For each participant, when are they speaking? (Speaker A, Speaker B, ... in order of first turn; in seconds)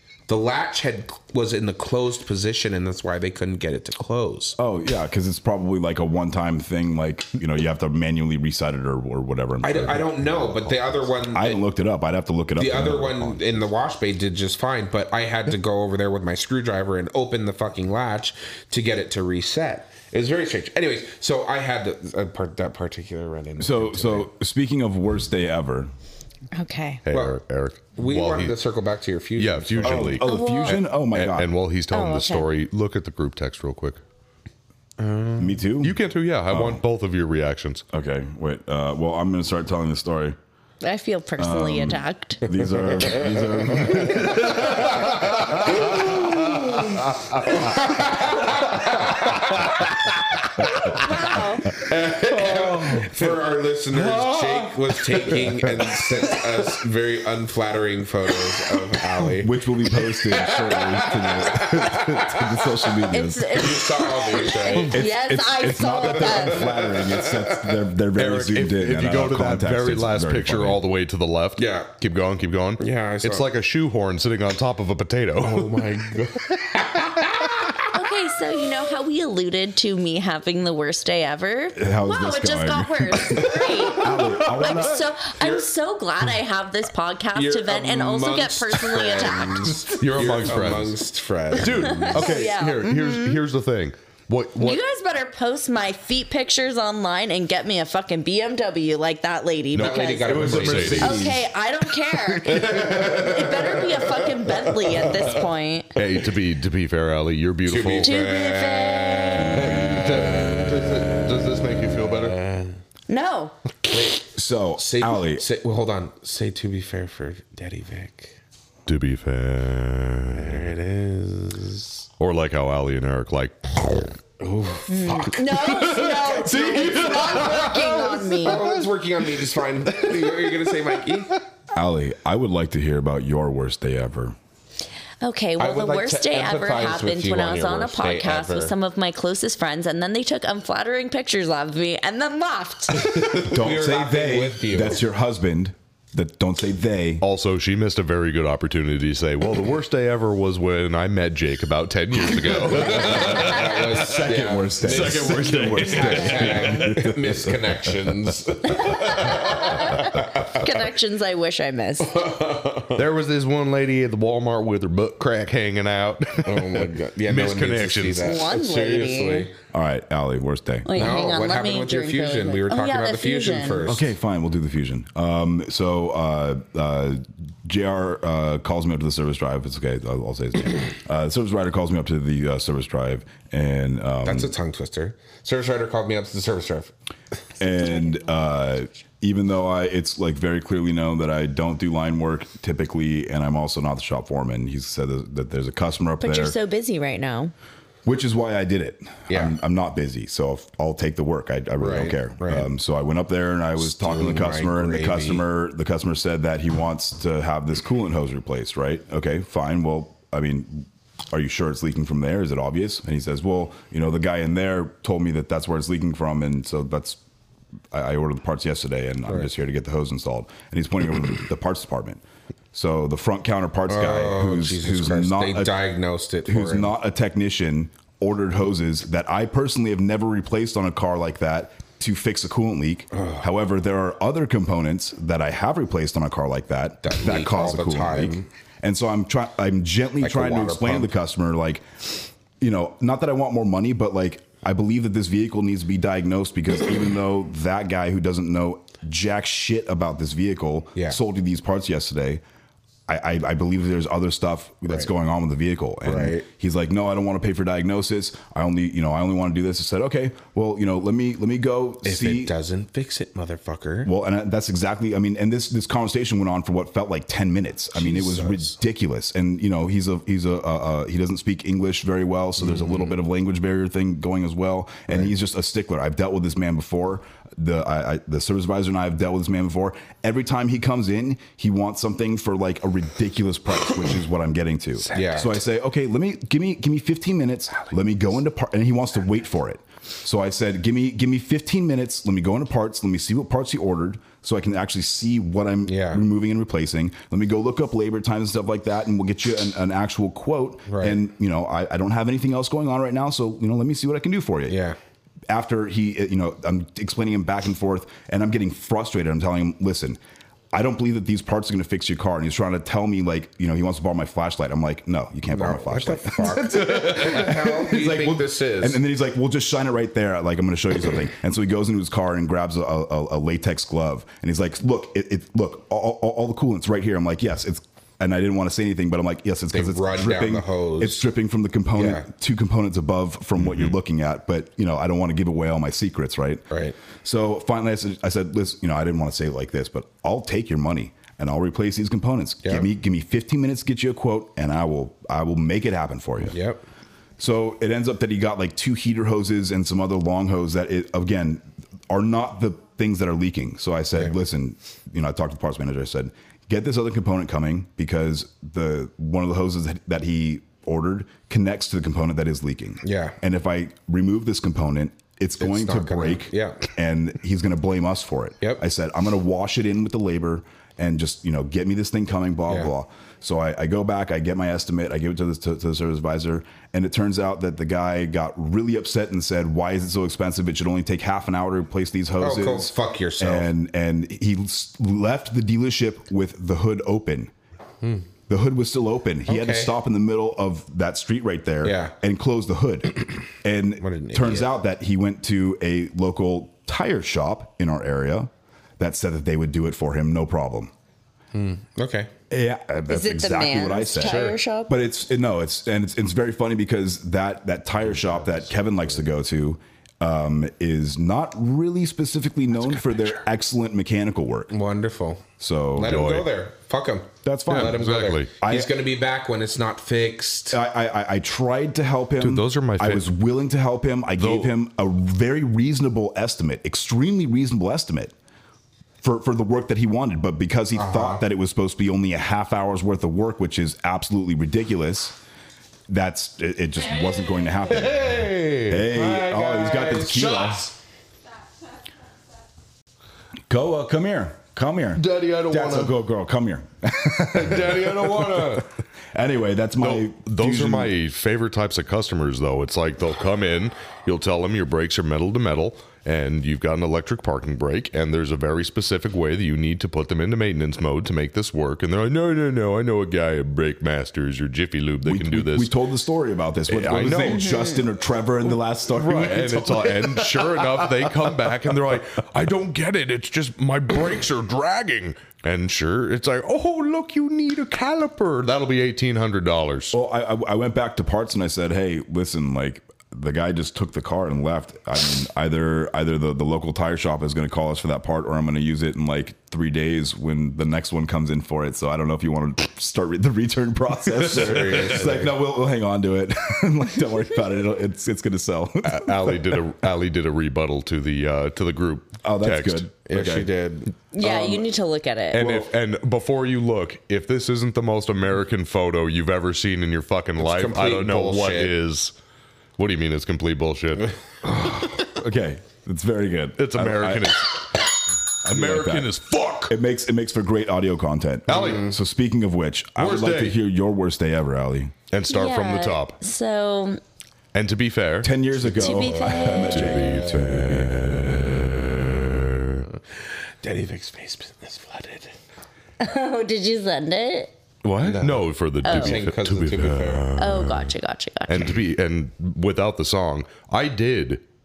Speaker A: 0.3-4.6, 9.6-11.6, 12.6-24.3, 27.1-27.4, 27.9-30.2, 35.0-35.6, 45.7-46.5, 47.5-50.0, 51.7-59.5, 60.1-62.5, 63.5-65.0, 66.2-67.7, 71.6-71.9, 72.8-73.4, 75.4-77.8, 85.4-85.7, 87.3-92.4, 99.7-101.4, 102.5-105.3, 107.7-111.2, 112.2-112.7, 113.9-118.3, 120.3-122.0, 124.4-131.4, 135.6-138.7, 143.0-145.0, 152.7-160.7, 162.1-163.0, 166.4-169.5, 170.9-174.0, 184.2-186.9, 199.3-199.6, 201.8-202.7, 203.8-205.4, 223.9-226.9, 233.1-233.4, 237.0-238.5, 240.2-241.1, 256.0-256.4, 262.0-264.1, 267.9-268.7, 272.6-273.1, 285.1-285.6, 295.9-296.2, 300.9-301.2, 304.7-305.0, 315.5-319.0, 329.7-331.2, 331.9-332.2, 346.5-346.8, 363.0-363.4, 365.6-366.9, 382.4-383.7, 388.0-388.3, 389.5-389.9, 391.8-392.1, 394.0-394.7, 401.5-402.3, 404.2-404.6, 408.1-408.6, 414.7-415.4, 415.9-420.8, 430.9-431.4, 439.1-440.9, 494.3-495.6, 503.3-504.8, 510.6-511.9, 521.7-522.2, 530.2-530.8, 533.1-535.5, 538.2-540.5
Speaker B: 4.6-13.6, 23.6-25.9, 29.8-31.5, 35.4-36.0, 36.5-36.8, 37.9-40.4, 41.4-46.4, 52.5-53.1, 59.2-63.7, 64.7-70.8, 81.7-85.1, 100.5-101.4, 114.2-115.4, 131.7-134.3, 143.4-147.2, 152.7-157.9, 169.7-171.1, 173.8-184.5, 187.6-196.5, 198.0-217.2, 217.9-222.2, 222.7-225.8, 226.4-252.4, 253.1-262.5, 264.0-304.8, 305.5-310.2, 310.7-346.6, 347.4-387.5, 388.5-400.9, 402.5-414.7, 415.6-416.2, 417.4-418.0, 418.6-419.0, 420.7-428.3, 429.2-435.4, 436.1-440.9, 443.7-451.1, 465.2-471.5, 480.1-499.9, 502.4-503.7, 514.6-517.6, 518.6-519.3, 519.9-525.1, 528.4-532.2
Speaker C: 26.5-27.0, 30.2-30.8, 31.9-32.5, 40.8-42.4, 50.9-51.7, 63.1-66.8, 77.9-89.8, 91.8-93.4, 94.6-106.0, 108.0-109.7, 113.1-113.5, 124.9-128.7, 135.2-143.1, 158.9-162.2, 168.2-169.5, 170.8-173.9, 196.2-197.5, 403.1-404.9, 467.4-468.1, 504.3-505.6, 525.5-527.2, 529.0-530.2, 536.2-537.7, 539.0-539.4, 540.6-541.8
Speaker D: 27.0-28.6, 29.4-34.0, 35.8-37.8, 44.4-45.7, 53.9-54.7, 68.1-76.2, 89.9-91.0, 91.5-94.8, 99.8-101.3, 106.0-108.1, 109.5-112.4, 118.8-120.6, 122.2-124.1, 126.7-127.6, 147.2-154.1, 154.8-157.0, 162.9-168.4, 416.0-416.5, 417.7-418.5, 422.4-423.2, 424.4-424.7, 437.9-439.0, 445.1-446.1, 447.5-448.8, 450.0-465.9, 466.9-467.7, 469.1-480.1, 499.0-503.1, 505.5-512.3, 513.0-514.3, 516.8-517.9, 518.6-520.0, 521.7-522.1, 523.2-523.8, 525.3-526.4, 527.7-528.6, 529.6-533.0, 538.0-541.1, 541.7-544.6